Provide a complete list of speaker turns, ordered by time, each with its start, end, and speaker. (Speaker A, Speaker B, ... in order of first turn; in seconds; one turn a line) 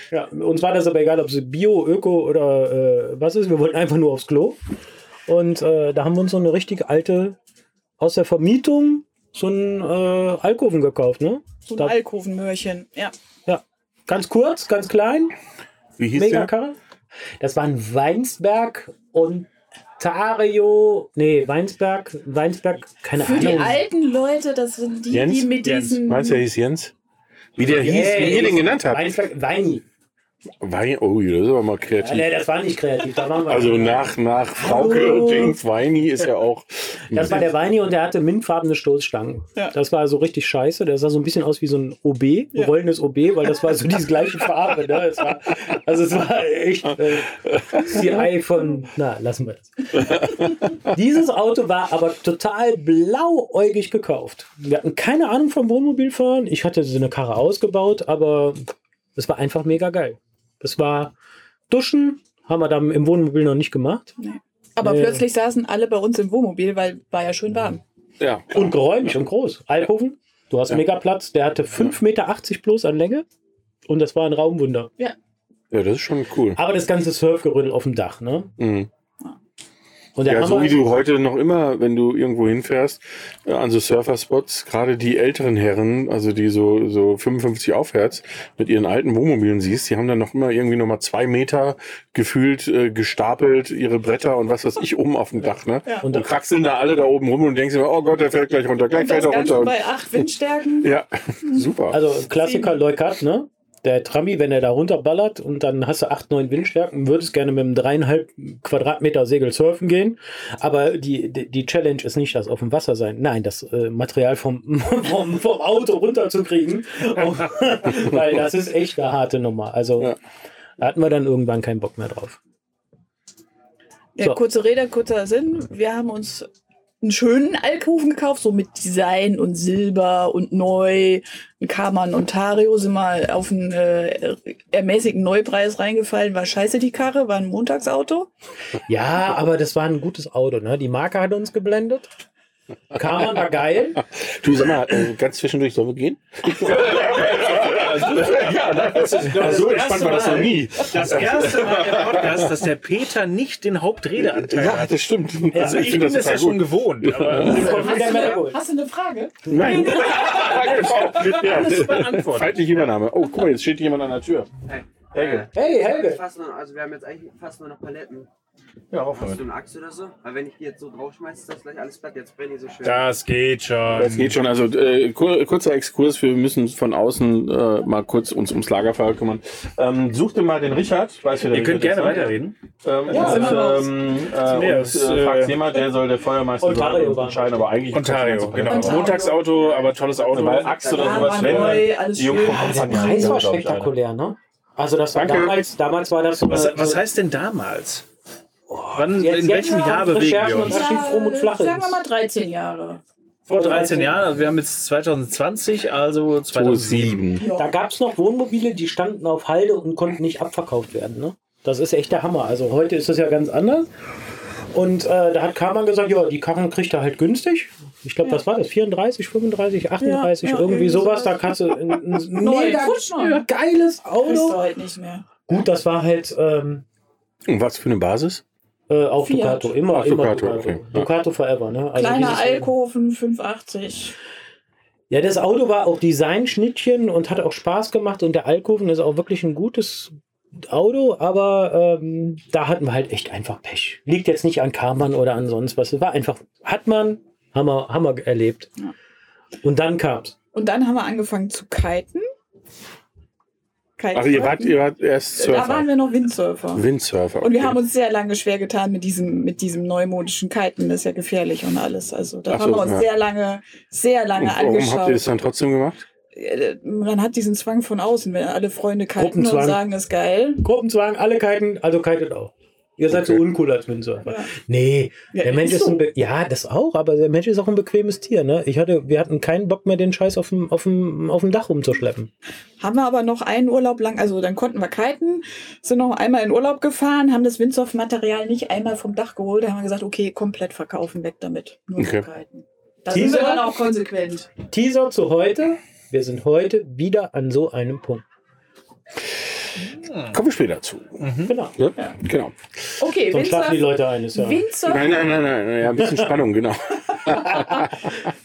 Speaker A: 0.1-4.6
Speaker A: 5.3-7.4
Speaker A: 8.0-12.0
Speaker B: 11.7-13.1
Speaker A: 13.5-15.3
Speaker C: 16.0-16.5
Speaker A: 16.1-16.8
Speaker A: 17.4-23.8
Speaker B: 23.2-26.4
Speaker C: 25.1-26.9
Speaker D: 25.6-26.0
Speaker C: 27.6-29.2
Speaker A: 27.6-29.9
Speaker C: 30.6-32.3
Speaker A: 32.0-35.6
Speaker C: 33.5-37.5
Speaker A: 37.1-61.1
Speaker A: 61.7-64.2
Speaker B: 64.2-67.8
Speaker A: 64.8-65.3
Speaker C: 68.2-68.8
Speaker A: 68.5-73.2
Speaker A: 73.9-74.9
Speaker C: 75.7-76.6
Speaker A: 76.6-78.5
Speaker C: 78.6-78.9
Speaker A: 80.2-80.8
Speaker C: 80.2-100.2
Speaker A: 96.0-96.3
Speaker B: 98.9-100.9
Speaker C: 100.8-102.0
Speaker A: 101.9-120.2
Speaker B: 102.4-102.7
Speaker A: 120.8-122.4
Speaker B: 124.2-126.5
Speaker B: 127.0-138.3
Speaker A: 138.9-142.1
Speaker A: 142.9-144.0
Speaker C: 144.2-152.5
Speaker D: 146.7-158.2
Speaker C: 154.4-157.6
Speaker A: 155.5-155.9
Speaker A: 157.3-158.6
Speaker B: 157.5-160.5
Speaker C: 159.5-164.5
Speaker A: 159.5-159.8
Speaker D: 160.2-162.7
Speaker E: 164.7-168.3
Speaker C: 165.1-165.5
Speaker A: 165.5-166.2
Speaker C: 168.9-169.4
Speaker E: 169.1-173.1
Speaker D: 172.8-174.4
Speaker C: 173.9-193.9
Speaker D: 181.4-182.6
Speaker A: 183.1-183.7
Speaker D: 183.1-183.6
Speaker B: 183.1-183.9
Speaker D: 184.4-185.7
Speaker A: 186.6-187.7
Speaker D: 187.9-191.9
Speaker B: 188.7-189.4
Speaker E: 188.9-191.6
Speaker B: 190.9-193.4
Speaker A: 192.4-197.0
Speaker C: 195.1-195.7
Speaker D: 196.5-198.1
Speaker A: 198.7-202.0
Speaker D: 198.9-201.0
Speaker B: 200.6-203.0
Speaker D: 203.5-207.3
Speaker A: 203.5-204.3
Speaker C: 206.5-207.5
Speaker B: 207.4-207.7
Speaker A: 207.5-213.9
Speaker A: 214.7-224.6
Speaker B: 220.0-223.4
Speaker B: 224.2-225.3
Speaker A: 225.5-226.8
Speaker C: 227.5-228.4
Speaker A: 228.9-232.7
Speaker B: 229.2-229.7
Speaker C: 229.9-231.1
Speaker B: 231.9-234.2
Speaker A: 235.1-248.7
Speaker A: 249.6-250.3
Speaker B: 250.5-252.2
Speaker B: 254.0-254.8
Speaker C: 254.1-255.9
Speaker B: 255.4-256.9
Speaker C: 256.8-257.8
Speaker B: 257.4-265.2
Speaker C: 262.5-263.1
Speaker C: 264.4-266.0
Speaker B: 266.3-270.6
Speaker A: 269.2-269.8
Speaker A: 270.6-282.3
Speaker C: 273.1-273.4
Speaker B: 274.2-274.5
Speaker B: 275.3-276.0
Speaker B: 282.8-294.6
Speaker C: 292.0-292.3
Speaker A: 293.1-293.8
Speaker A: 294.7-298.2
Speaker D: 299.8-300.4
Speaker C: 300.3-301.2
Speaker D: 301.2-301.6
Speaker A: 301.4-301.8
Speaker C: 301.8-303.0
Speaker B: 303.0-305.2
Speaker A: 303.3-304.7
Speaker C: 304.9-308.3
Speaker A: 305.9-306.3
Speaker B: 307.3-308.0